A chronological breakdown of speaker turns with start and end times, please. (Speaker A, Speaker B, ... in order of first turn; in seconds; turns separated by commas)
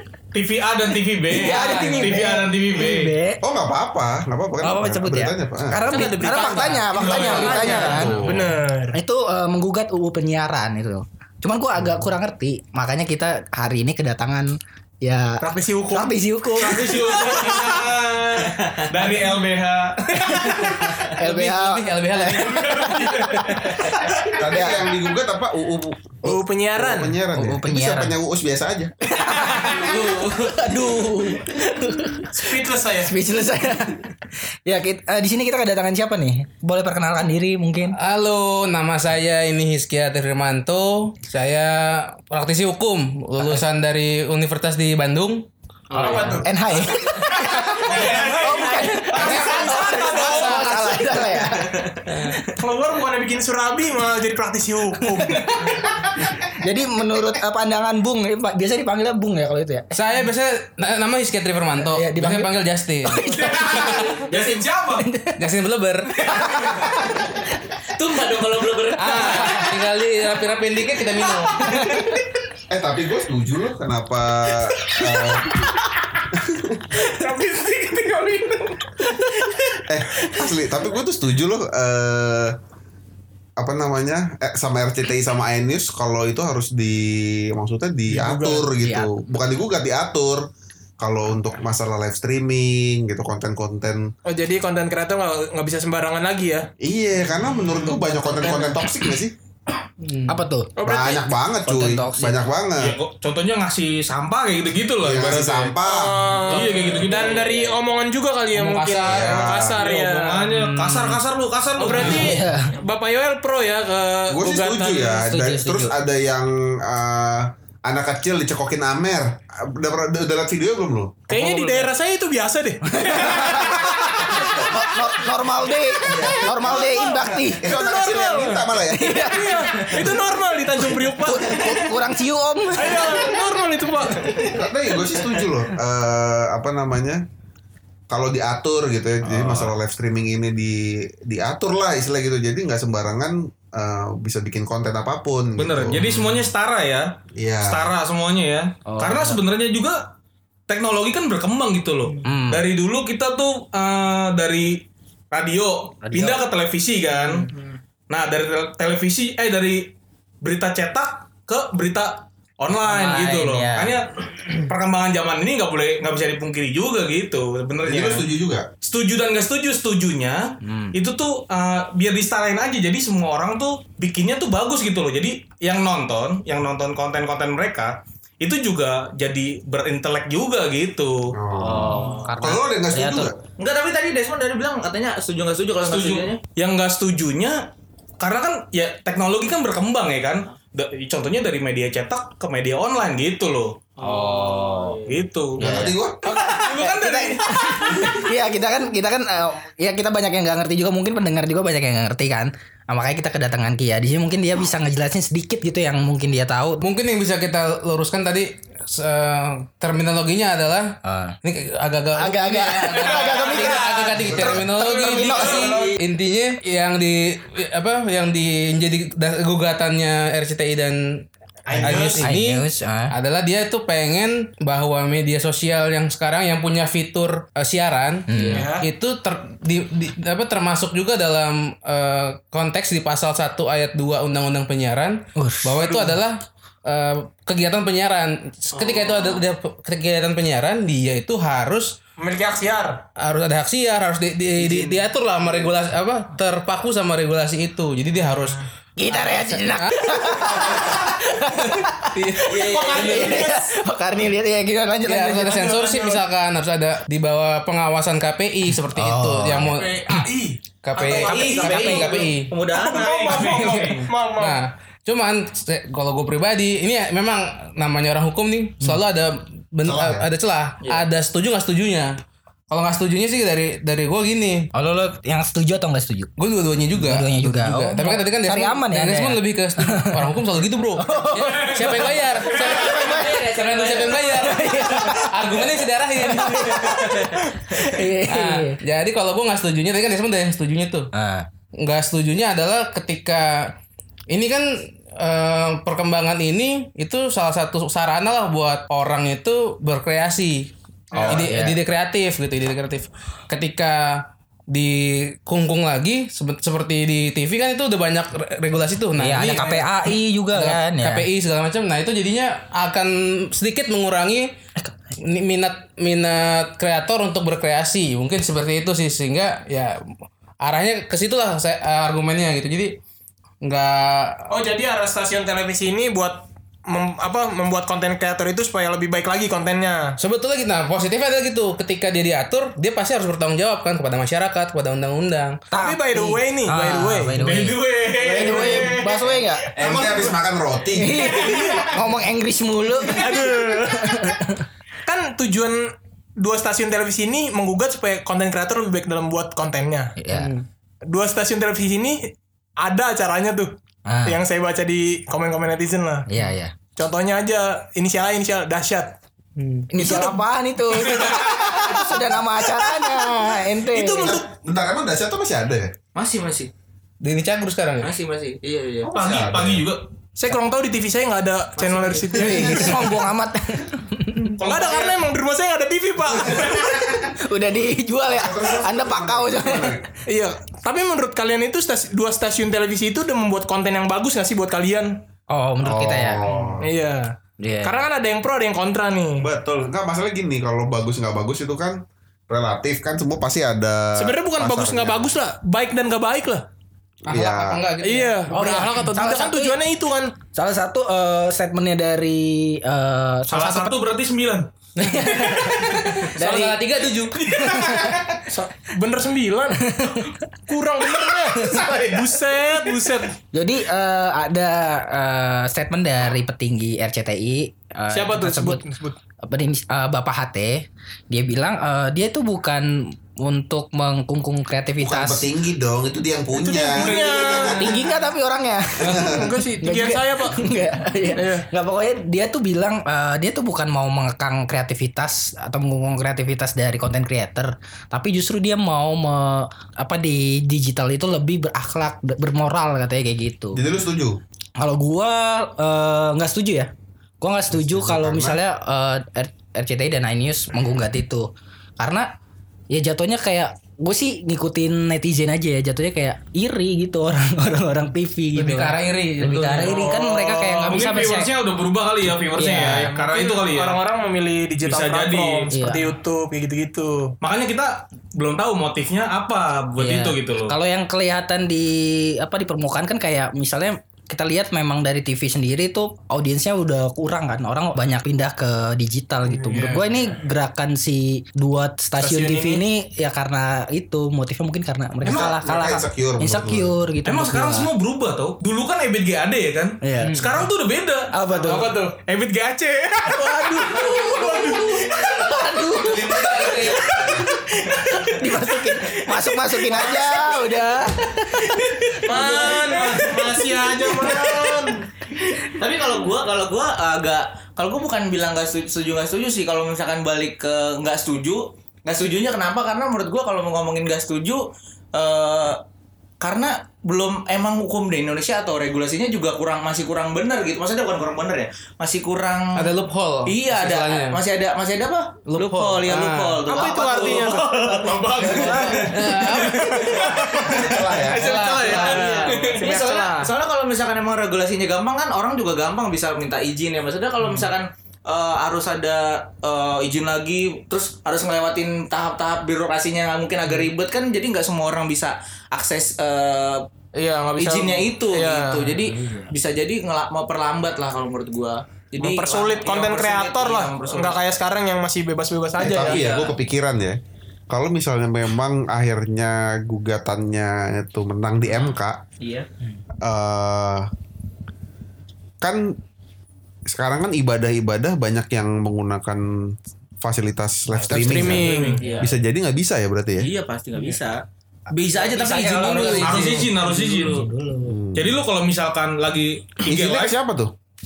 Speaker A: 0.3-3.1, Speaker B: 1.3-3.4, Speaker C: 1.6-2.0, Speaker D: 1.6-2.3, Speaker E: 3.4-6.0, Speaker B: 4.6-8.2, Speaker D: 5.8-9.0, Speaker A: 6.9-7.2, Speaker E: 7.1-8.5, Speaker F: 7.5-7.7, Speaker B: 8.9-17.0, Speaker D: 15.4-17.8, Speaker A: 16.6-20.9, Speaker D: 18.9-19.3, Speaker B: 20.6-23.3, Speaker C: 21.1-22.4, Speaker A: 22.4-23.9, Speaker E: 24.3-28.9, Speaker D: 26.2-27.2, Speaker B: 27.3-28.1, Speaker B: 29.1-32.3, Speaker F: 29.7-30.8, Speaker D: 32.3-33.1, Speaker B: 33.0-34.1, Speaker B: 34.6-38.0, Speaker C: 37.9-45.5, Speaker F: 45.9-46.4, Speaker D: 45.9-50.6, Speaker C: 46.0-46.4, Speaker B: 46.4-51.9, Speaker C: 49.2-51.4, Speaker F: 51.6-51.9, Speaker C: 52.1-52.4, Speaker D: 52.5-55.8, Speaker B: 55.2-55.5, Speaker B: 56.2-59.9, Speaker C: 59.9-64.3, Speaker B: 61.8-62.5, Speaker B: 63.1-64.0, Speaker A: 63.5-65.0, Speaker F: 64.3-64.6, Speaker B: 65.0-65.4, Speaker C: 65.4-66.2, Speaker B: 66.2-67.4, Speaker F: 67.9-69.7, Speaker C: 69.0-72.0, Speaker B: 69.0-69.7, Speaker D: 71.3-72.2, Speaker B: 71.6-72.2, Speaker E: 72.7-75.5, Speaker E: 76.3-77.0, Speaker D: 77.0-80.4, Speaker E: 79.9-82.5, Speaker E: 83.6-90.5, Speaker D: 88.1-88.7, Speaker B: 88.8-89.2, Speaker E: 91.0-94.0, Speaker D: 94.2-96.7, Speaker E: 96.8-99.3, Speaker D: 97.7-99.0, Speaker C: 100.0-100.4, Speaker B: 100.3-100.7, Speaker D: 100.8-101.3, Speaker E: 100.8-103.0, Speaker B: 101.6-102.4, Speaker A: 102.8-105.8, Speaker E: 105.0-106.2, Speaker D: 105.8-110.5, Speaker A: 106.5-107.3, Speaker F: 107.2-107.6, Speaker C: 108.5-111.2, Speaker E: 109.0-109.8, Speaker A: 109.8-112.3, Speaker D: 111.7-115.2, Speaker C: 111.9-112.1, Speaker B: 112.0-112.7, Speaker E: 114.3-121.3, Speaker B: 115.2-115.9, Speaker D: 121.3-131.9, Speaker B: 122.9-127.7, Speaker E: 126.0-129.1, Speaker B: 128.9-129.5, Speaker B: 131.0-133.2, Speaker D: 132.8-134.4, Speaker E: 134.3-137.2, Speaker F: 135.1-135.4, Speaker E: 138.1-146.5, Speaker A: 145.6-150.0, Speaker E: 147.3-147.9, Speaker B: 148.9-149.4, Speaker A: 150.7-157.4, Speaker B: 152.2-152.6, Speaker B: 156.0-156.5, Speaker F: 157.2-157.8, Speaker A: 158.1-168.3, Speaker B: 162.8-163.9, Speaker E: 167.8-168.7, Speaker A: 168.8-181.3, Speaker B: 170.6-171.0, Speaker E: 181.3-183.3, Speaker B: 181.6-183.3, Speaker F: 183.6-186.4, Speaker A: 185.8-187.6, Speaker A: 188.2-193.8, Speaker F: 194.0-195.2, Speaker B: 194.0-195.0, Speaker A: 195.1-195.7, Speaker E: 195.6-196.2, Speaker B: 195.6-206.8, Speaker A: 196.2-198.2, Speaker C: 206.8-210.9, Speaker B: 211.1-211.3, Speaker C: 211.4-220.9, Speaker B: 212.2-215.8, Speaker D: 213.1-213.7, Speaker E: 214.2-215.9, Speaker D: 221.7-222.2, Speaker E: 221.7-222.1, Speaker C: 221.7-242.0, Speaker B: 222.2-223.1, Speaker B: 228.3-228.7, Speaker F: 228.3-228.6, Speaker D: 228.5-228.9, Speaker B: 235.4-235.7, Speaker D: 235.8-236.1, Speaker F: 238.7-239.4, Speaker D: 242.2-243.0, Speaker C: 243.2-249.9, Speaker F: 244.6-245.1, Speaker B: 249.0-255.6, Speaker C: 252.2-252.5, Speaker F: 252.4-253.4, Speaker D: 252.5-253.7, Speaker C: 255.1-260.3, Speaker D: 255.5-256.2, Speaker B: 258.8-259.7, Speaker D: 259.6-264.6, Speaker C: 260.8-262.6, Speaker F: 261.1-263.7, Speaker A: 263.2-264.1, Speaker C: 263.6-272.1, Speaker E: 269.8-270.3, Speaker C: 272.7-274.7, Speaker B: 274.7-276.3, Speaker C: 276.4-287.0, Speaker B: 276.9-280.3, Speaker B: 281.0-283.5, Speaker F: 282.6-284.6, Speaker B: 284.3-285.6, Speaker B: 286.2-288.8, Speaker F: 286.8-287.5, Speaker C: 288.2-291.1, Speaker B: 291.1-291.5, Speaker C: 291.8-293.7, Speaker C: 294.3-314.5, Speaker D: 301.1-301.4, Speaker B: 301.2-301.8, Speaker B: 309.2-311.3, Speaker C: 315.2-319.9, Speaker C: 320.6-323.0, Speaker C: 323.6-324.6, Speaker D: 324.5-330.2, Speaker C: 330.2-335.6, Speaker B: 335.7-339.6, Speaker D: 335.8-337.4, Speaker A: 337.4-339.0, Speaker D: 338.0-340.3, Speaker E: 339.8-341.5, Speaker B: 340.9-343.2, Speaker D: 341.2-341.9, Speaker D: 343.0-344.4, Speaker B: 343.9-344.5, Speaker D: 345.0-350.1, Speaker B: 350.2-350.5, Speaker C: 350.3-350.6, Speaker D: 351.1-356.3, Speaker B: 354.1-354.4, Speaker B: 356.3-356.7, Speaker D: 356.9-359.1, Speaker C: 359.6-359.9, Speaker B: 359.9-364.4, Speaker D: 360.0-360.4, Speaker D: 361.6-362.2, Speaker D: 362.8-363.3, Speaker D: 363.8-364.4, Speaker E: 364.2-365.9, Speaker F: 366.1-366.7, Speaker C: 367.2-368.1, Speaker F: 368.0-369.1, Speaker E: 369.1-369.9, Speaker A: 369.1-370.1, Speaker D: 370.3-373.1, Speaker F: 371.8-372.8, Speaker B: 372.3-374.5, Speaker A: 374.6-375.2, Speaker D: 374.6-376.9, Speaker B: 376.5-380.0, Speaker E: 378.4-380.0, Speaker D: 380.2-385.2, Speaker B: 385.5-386.8, Speaker E: 385.8-386.9, Speaker D: 386.8-389.4, Speaker B: 387.6-388.1, Speaker E: 389.4-395.4, Speaker D: 394.1-396.7, Speaker E: 397.3-397.9, Speaker C: 397.3-398.4, Speaker D: 398.0-400.3, Speaker B: 398.5-399.8, Speaker B: 400.5-404.0, Speaker A: 403.5-404.7, Speaker B: 405.0-408.2, Speaker C: 405.0-407.4, Speaker D: 407.2-407.8, Speaker D: 408.4-410.1, Speaker B: 409.8-410.4, Speaker D: 410.7-413.4, Speaker B: 411.6-411.8, Speaker B: 413.5-418.8, Speaker D: 418.1-419.2, Speaker B: 419.4-420.7, Speaker B: 421.3-425.5, Speaker E: 425.0-428.1, Speaker D: 426.5-428.0, Speaker B: 427.7-443.8, Speaker E: 429.0-429.5, Speaker D: 429.3-430.6, Speaker D: 431.3-431.6, Speaker E: 443.7-444.4, Speaker B: 444.8-451.5, Speaker E: 447.7-448.6, Speaker B: 452.0-452.3, Speaker B: 452.9-461.5, Speaker C: 458.6-460.1, Speaker D: 459.9-460.2, Speaker A: 460.4-464.0, Speaker B: 462.5-463.1, Speaker D: 463.0-467.3, Speaker A: 464.8-465.7, Speaker B: 465.7-466.1, Speaker A: 467.4-470.7, Speaker B: 470.0-487.9, Speaker D: 479.5-480.0, Speaker D: 482.2-482.8, Speaker E: 485.2-486.9, Speaker A: 487.2-491.3, Speaker B: 490.0-490.6, Speaker C: 490.2-490.6, Speaker B: 491.3-492.0, Speaker D: 491.6-495.1, Speaker A: 492.3-492.9, Speaker B: 493.2-502.9, Speaker C: 496.2-497.0, Speaker A: 496.3-496.9, Speaker F: 499.9-500.2, Speaker D: 502.2-505.0, Speaker F: 502.3-514.6, Speaker F: 515.1-515.8, Speaker F: 516.4-522.9, Speaker C: 522.7-524.4, Speaker F: 523.5-529.1, Speaker C: 525.5-526.7, Speaker D: 526.6-533.5, Speaker A: 528.0-528.8, Speaker B: 528.4-529.0, Speaker C: 528.9-530.2, Speaker F: 529.8-530.3, Speaker E: 530.4-531.5, Speaker C: 531.4-532.7, Speaker F: 531.4-546.8, Speaker D: 547.1-548.9, Speaker F: 547.5-554.4, Speaker B: 549.0-549.5, Speaker D: 552.2-556.2, Speaker E: 555.8-557.2, Speaker F: 555.8-556.6, Speaker E: 557.7-562.2, Speaker F: 561.7-562.7, Speaker E: 563.2-564.1, Speaker E: 565.6-566.0, Speaker E: 566.9-569.4, Speaker E: 570.2-573.5, Speaker D: 571.1-572.0, Speaker B: 571.2-572.2, Speaker F: 571.8-572.3, Speaker F: 573.4-574.4, Speaker F: 574.9-577.4, Speaker B: 575.0-578.0, Speaker A: 576.0-577.3, Speaker E: 577.9-578.4, Speaker A: 578.1-580.4, Speaker E: 579.8-580.7